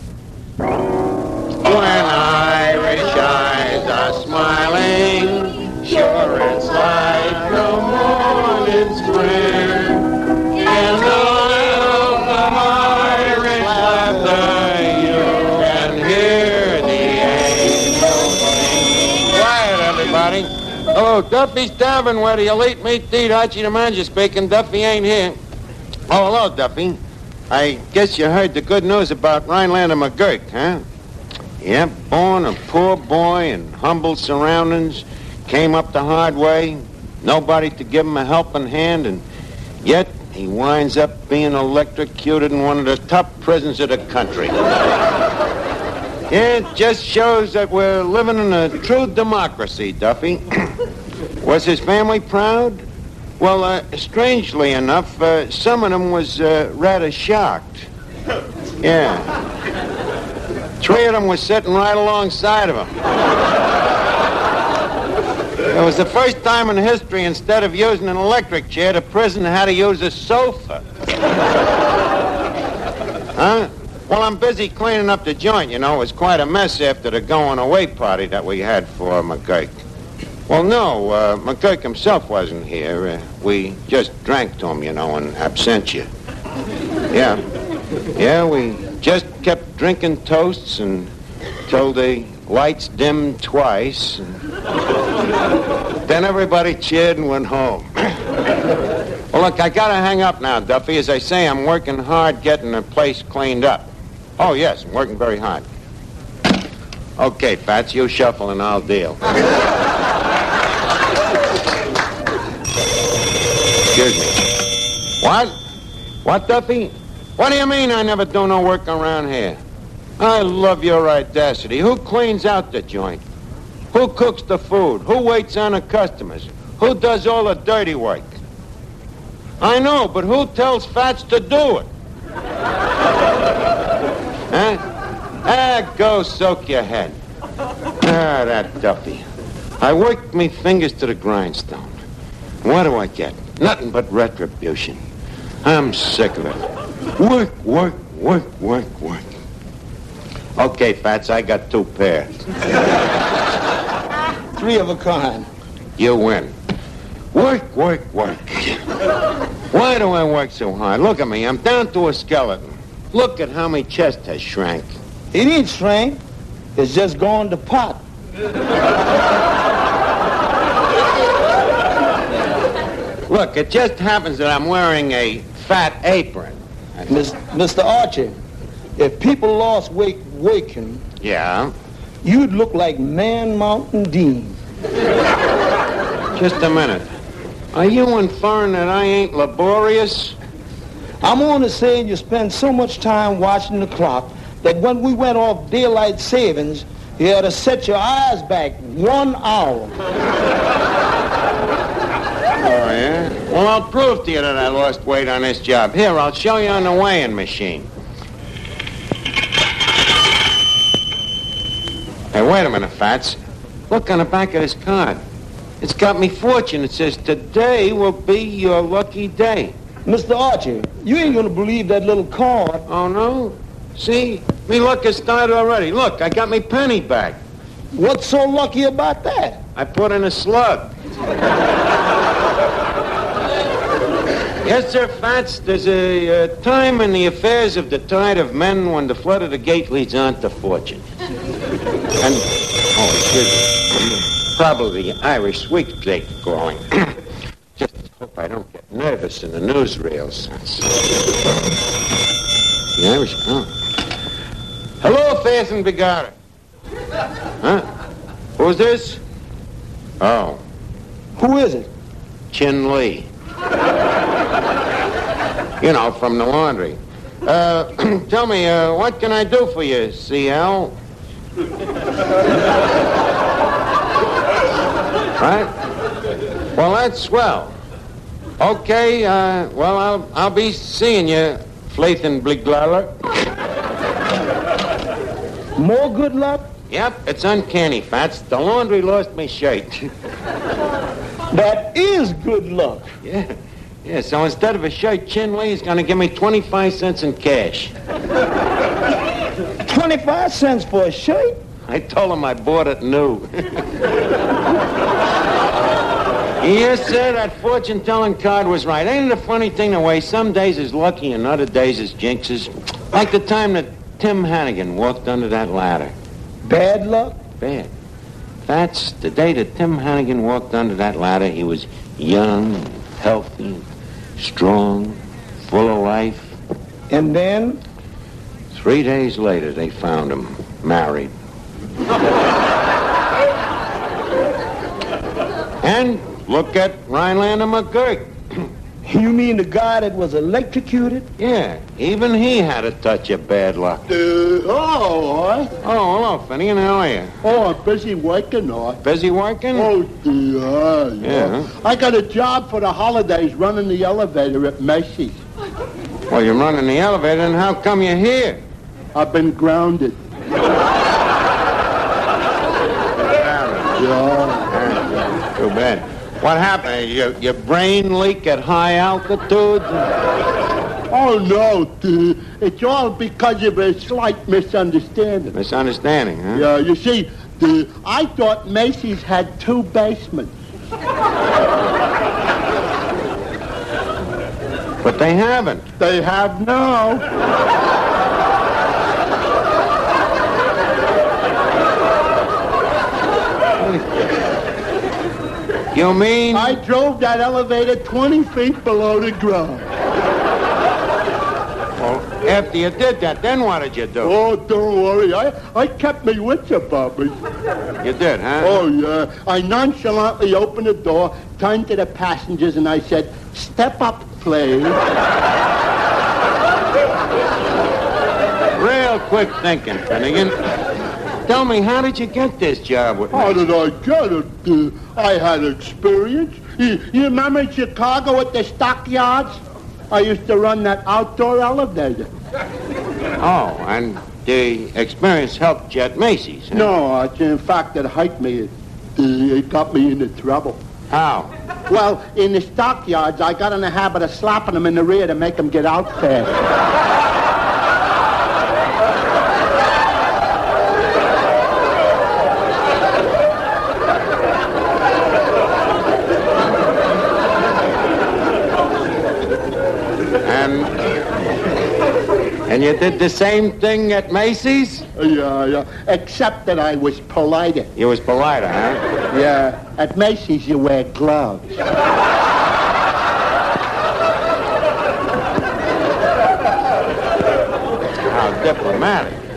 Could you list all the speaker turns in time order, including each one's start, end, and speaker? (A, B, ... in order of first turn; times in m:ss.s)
0:01.6-0:25.4 A
0:26.1-0:27.0 A
0:27.5-0:30.8 A
0:31.6-0:39.2 A
0:39.8-0:44.5 A
0:46.3-0:50.7 A
0:51.4-0:52.8 A
0:53.4-0:57.9 A
0:58.8-0:59.3 A
1:00.8-1:02.9 A
1:05.6-1:10.8 A
1:13.3-1:19.7 A
1:20.5-1:26.1 A
1:27.1-1:27.4 A
1:28.2-1:31.1 A
1:31.6-1:34.4 A
1:36.0-1:38.2 A
1:39.3-1:45.6 A
1:47.2-1:49.2 A
1:53.9-1:54.4 A
1:55.2-1:55.5 A
1:56.2-1:59.6 A
2:00.2-2:03.2 A
2:03.9-2:08.4 A
2:09.6-2:11.9 A
2:14.5-2:14.8 A
2:15.4-2:17.2 A
2:18.0-2:19.2 A
2:19.8-2:22.0 A
2:22.6-2:25.0 A
2:25.6-2:26.6 A
2:27.2-2:29.2 A
2:30.6-2:32.4 A
2:34.5-2:35.5 B
2:36.0-2:36.5 A
2:37.3-2:38.8 A
2:39.7-2:45.0 A
2:45.3-2:46.2 B
2:46.7-2:48.0 B
2:53.3-2:57.1 A
2:57.1-2:58.4 B
2:59.0-3:01.0 B
3:01.2-3:01.7 A
3:02.2-3:04.6 B
3:06.3-3:07.1 A
3:07.7-3:10.4 A
3:11.2-3:20.0 B
3:22.6-3:27.9 A
3:32.3-3:33.4 A
3:33.9-3:35.2 A
3:35.8-3:39.7 A
3:40.0-3:42.9 B
3:42.9-3:47.4 A
3:47.9-3:49.6 B
3:49.8-3:50.9 A
3:54.6-4:01.0 A
4:02.2-4:07.2 A
4:07.8-4:11.0 A
4:13.0-4:13.7 A
4:15.0-4:16.3 A
4:18.6-4:19.2 A
4:20.2-4:20.6 A
4:21.4-4:21.9 B
4:22.5-4:23.3 A
4:25.8-4:30.9 A
4:35.4-4:35.7 A
4:36.7-4:37.7 A
4:38.6-4:43.2 A
4:45.8-4:46.7 B
4:46.9-4:50.1 A
4:51.5-4:53.1 B
4:53.2-4:57.9 A
4:59.8-5:01.6 B
5:01.9-5:03.9 A
5:06.6-5:16.1 A
5:16.6-5:17.4 B
5:17.6-5:17.9 A
5:18.7-5:23.8 A
5:24.4-5:26.5 A
5:27.1-5:27.8 B
5:28.7-5:31.3 A
5:35.8-5:38.6 A
5:39.0-5:41.3 B
5:41.4-5:44.0 A
5:44.1-5:45.7 C
5:45.8-5:47.3 A
5:47.4-5:49.0 C
5:49.0-5:49.9 A
5:49.7-5:55.4 C
5:51.2-5:51.7 A
5:56.3-5:58.6 A
5:59.1-6:00.2 C
6:03.2-6:04.0 A
6:04.0-6:04.7 C
6:04.7-6:10.1 A
6:11.1-6:15.5 C
6:15.5-6:16.7 A
6:16.5-6:20.6 C
6:25.0-6:25.8 A
6:26.0-6:27.2 C
6:33.8-6:34.0 A
6:35.9-6:36.8 A
6:36.5-6:39.8 C
6:42.0-6:44.4 A
6:44.2-6:47.4 C
6:48.0-6:48.8 A
6:48.6-6:55.0 C
6:58.7-7:00.5 A
7:01.4-7:03.6 A
7:03.3-7:09.6 C
7:10.1-7:12.3 C
7:13.4-7:16.9 A
7:16.7-7:20.8 C
7:21.1-7:21.5 A
7:21.9-7:26.5 C
7:40.4-7:41.0 A
7:42.7-7:45.0 A
7:45.2-7:47.9 C
7:48.0-7:49.0 A
7:49.3-7:51.7 C
7:58.3-7:59.4 A